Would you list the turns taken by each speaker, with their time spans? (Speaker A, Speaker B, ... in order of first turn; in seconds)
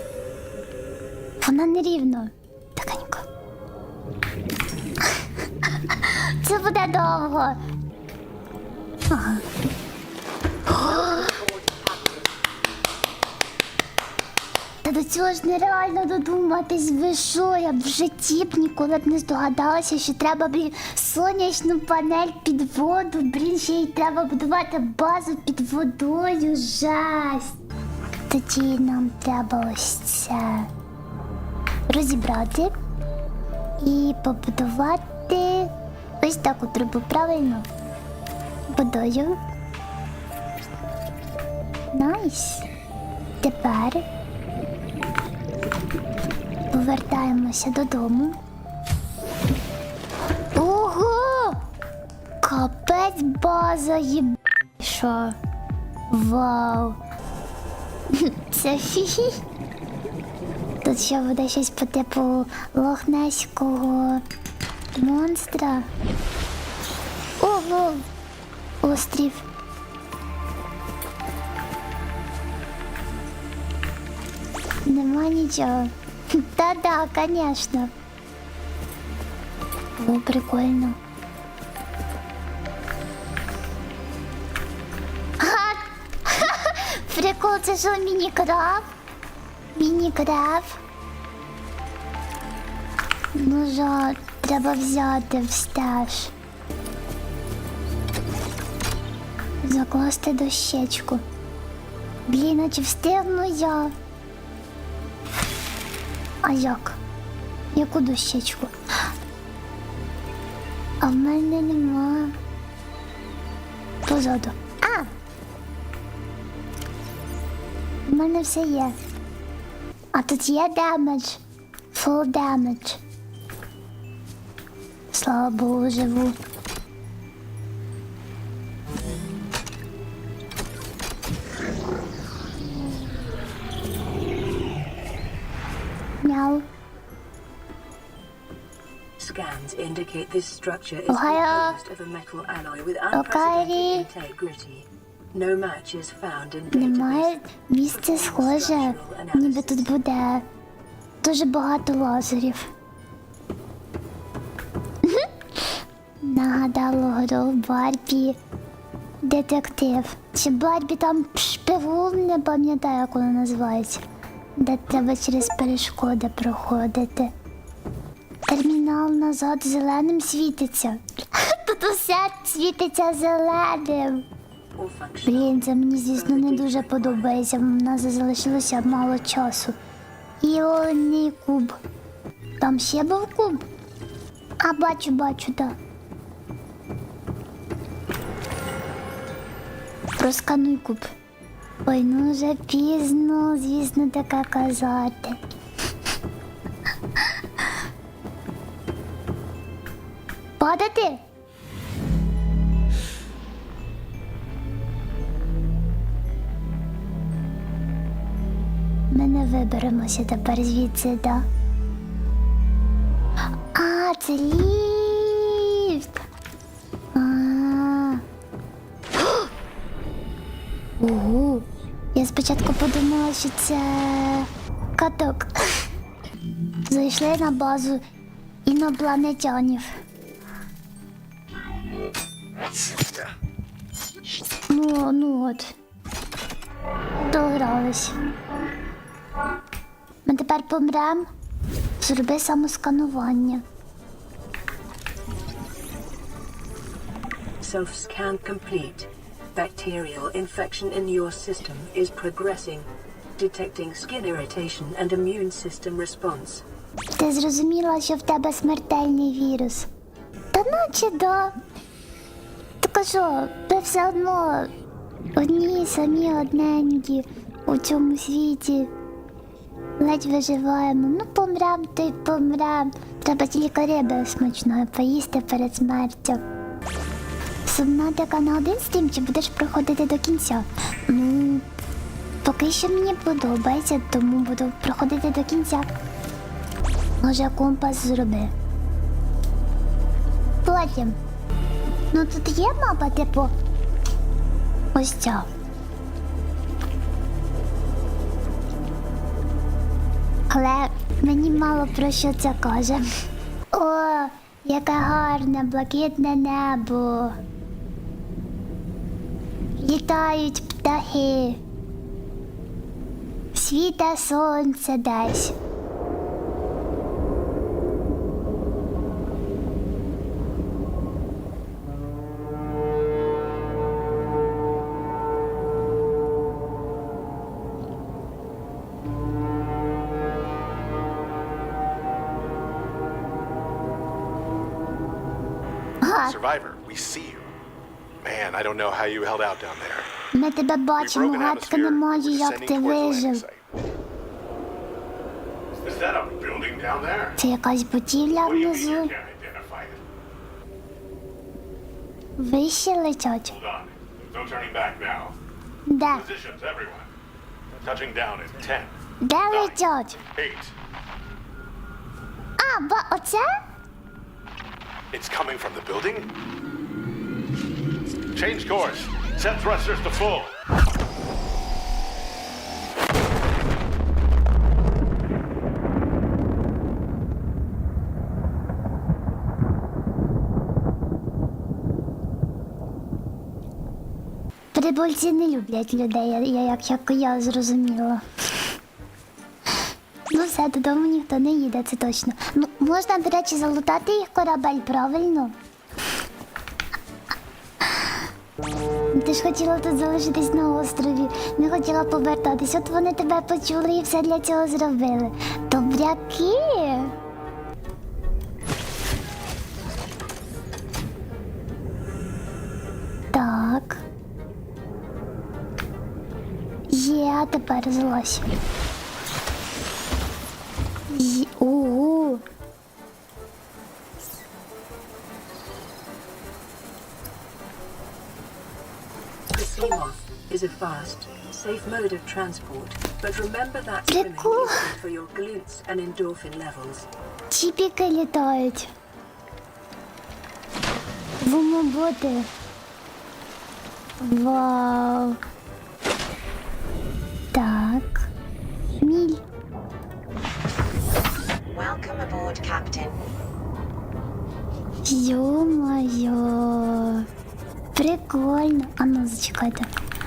Speaker A: 1.4-3.2, 5.0-7.6, 9.1-9.4, 10.7-11.3, 14.8-27.6, 28.3-30.7, 31.9-32.7, 33.8-37.7, 38.7-39.4, 41.9-42.6, 43.4-44.0, 46.7-48.4, 50.5-51.6, 52.4-55.4, 56.1-57.0, 58.1-59.4, 60.8-64.2, 64.9-65.9, 67.4-68.0, 68.8-69.5, 74.9-77.9, 80.0-81.0, 85.4-88.9, 89.8-90.8, 93.3-96.3, 99.6-101.2, 102.3-103.9, 106.4-107.0, 107.7-108.7, 111.0-112.4, 114.1-115.1, 118.1-119.0, 120.1-121.4, 121.9-123.0, 125.1-126.4, 136.2-136.7, 141.1-141.8, 143.1-144.1, 146.7-150.5, 151.2-152.7, 155.0-155.6, 156.2-158.4, 159.2-164.0, 164.6-167.3, 168.5-174.2, 175.3-179.8, 180.4-181.8, 182.6-183.6, 184.6-185.8, 190.2-191.1, 191.9-195.4, 200.6-201.2, 209.1-211.5, 213.7-216.1, 217.1-218.2, 219.2-219.5, 221.0-225.9, 226.9-228.0, 228.7-230.0, 234.7-235.7, 237.2-238.2, 240.3-241.3, 242.0-243.6, 257.2-259.9, 260.5-261.6, 262.8-264.7, 265.4-268.9, 270.0-276.4, 277.6-281.7, 282.4-285.9, 287.2-288.5, 290.6-291.2, 292.1-293.6, 294.9-295.5, 300.5-303.1, 303.7-307.4, 309.8-311.6, 313.5-315.6, 336.0-336.4, 340.3-343.4, 347.4-349.1, 352.4-353.5, 355.9-356.2, 359.2-360.2, 362.6-363.6, 384.7-388.2, 390.3-395.6, 399.1-407.1, 413.3-414.0, 416.9-418.5, 421.1-422.4, 434.1-434.9, 437.5-438.9, 441.4-442.5, 444.2-445.4, 447.5-448.3, 449.0-449.4, 455.1-457.3, 457.9-459.9
Speaker B: 11.0-11.9, 451.7-453.2
Speaker C: 139.2-149.9, 174.8-177.4, 247.6-256.6, 429.4-437.1
Speaker D: 336.2-337.5, 338.2-340.1, 341.0-343.7, 345.7-347.4, 348.3-350.0, 353.5-355.4, 356.1-357.1, 357.7-360.7, 365.1-366.3, 368.3-370.6